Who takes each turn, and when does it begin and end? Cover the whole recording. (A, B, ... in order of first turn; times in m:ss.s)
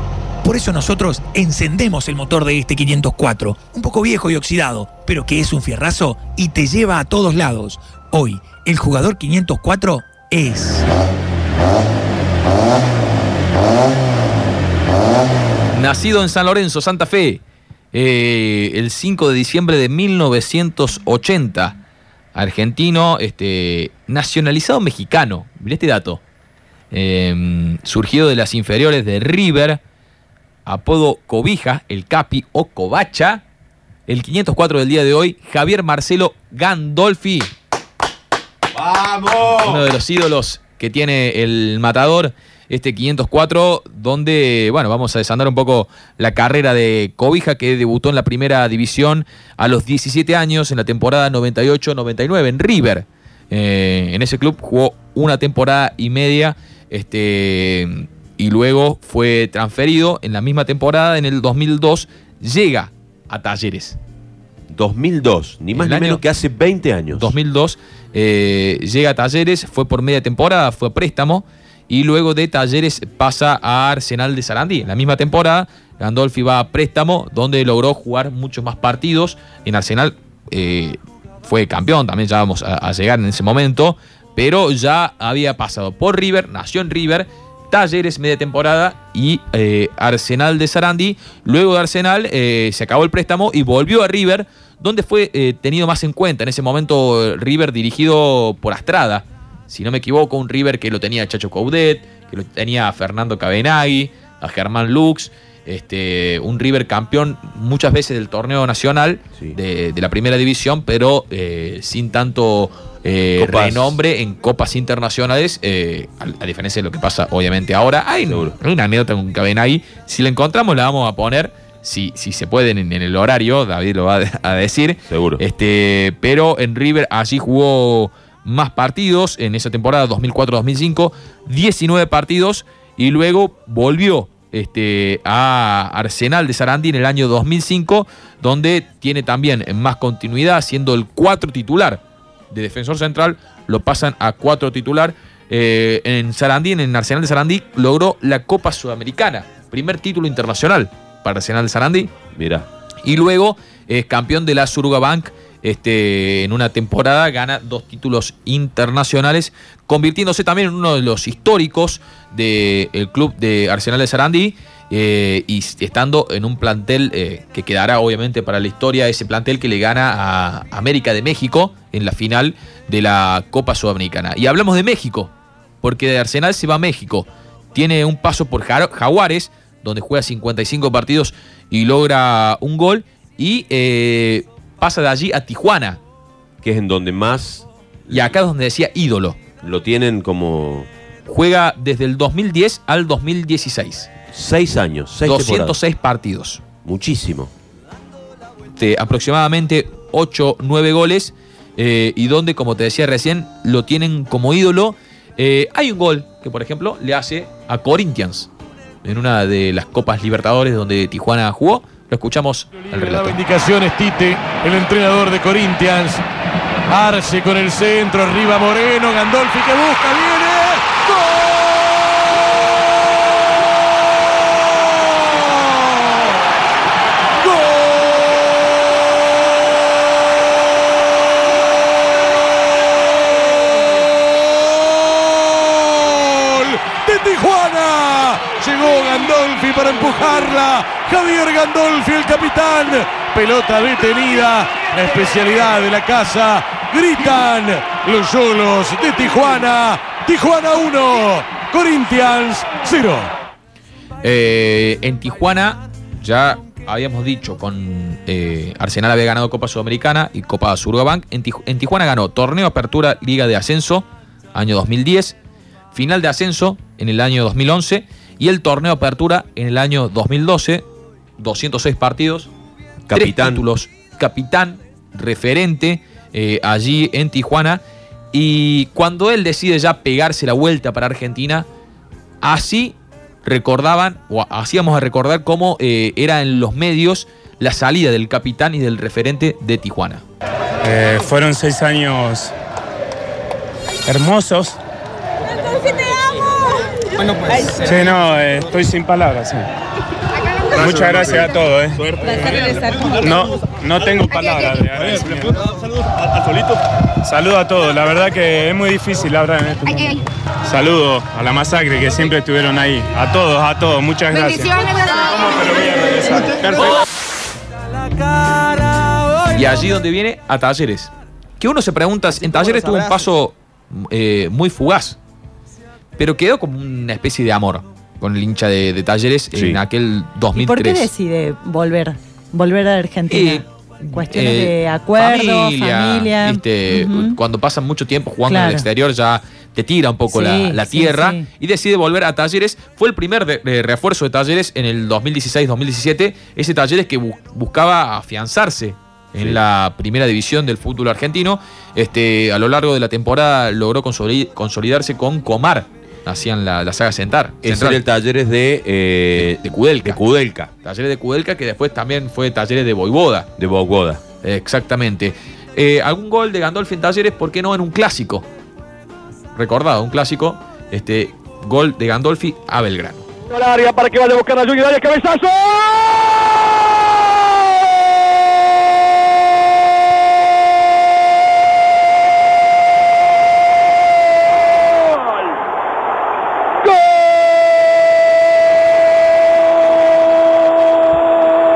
0:00.4-0:10.9 A
0:15.7-0:17.4 B
0:17.9-0:21.7 B
0:22.3-0:26.2 B
0:26.9-0:29.8 B
0:30.6-0:33.4 B
0:34.1-0:37.5 B
0:39.4-1:04.0 B
1:04.7-1:07.4 C
1:05.8-1:06.2 B
1:07.1-2:32.1 B
1:53.4-1:54.0 C
1:58.2-1:58.5 C
2:05.1-2:05.4 C
2:32.3-2:32.7 C
2:33.0-2:55.3 B
2:55.8-3:06.0 B
3:06.6-3:08.3 C
3:08.1-3:09.4 B
3:09.6-3:10.9 C
3:11.2-3:14.1 B
3:14.3-3:15.8 C
3:15.2-3:16.6 B
3:16.8-3:17.5 C
3:18.8-3:28.5 B
3:29.0-3:33.4 B
3:32.8-3:36.2 D
3:36.9-3:41.7 D
3:45.1-3:46.2 D
3:47.4-3:48.4 D
3:53.4-4:13.3 D
4:14.2-4:25.4 B
4:25.9-4:30.8 B
4:31.4-4:32.5 B
4:33.1-4:33.6 C
4:33.1-4:37.8 B
4:38.3-4:41.7 B
4:42.4-4:50.2 B
4:50.8-4:52.5 E
4:54.1-4:54.8 E
4:57.6-4:59.6 E
5:00.7-5:05.6 E
5:07.2-5:16.9 E
5:19.5-5:25.2 B
5:26.2-5:31.1 B
5:29.5-5:29.8 C
5:30.5-5:37.4 F
5:33.3-5:58.0 B
5:38.4-5:38.8 F
5:40.3-5:41.4 F
5:57.6-6:00.7 C
5:59.4-6:00.2 B
6:00.8-6:03.5 B
6:03.6-6:04.2 C
6:04.4-6:08.4 B
6:09.6-6:13.2 B
6:13.4-6:16.2 G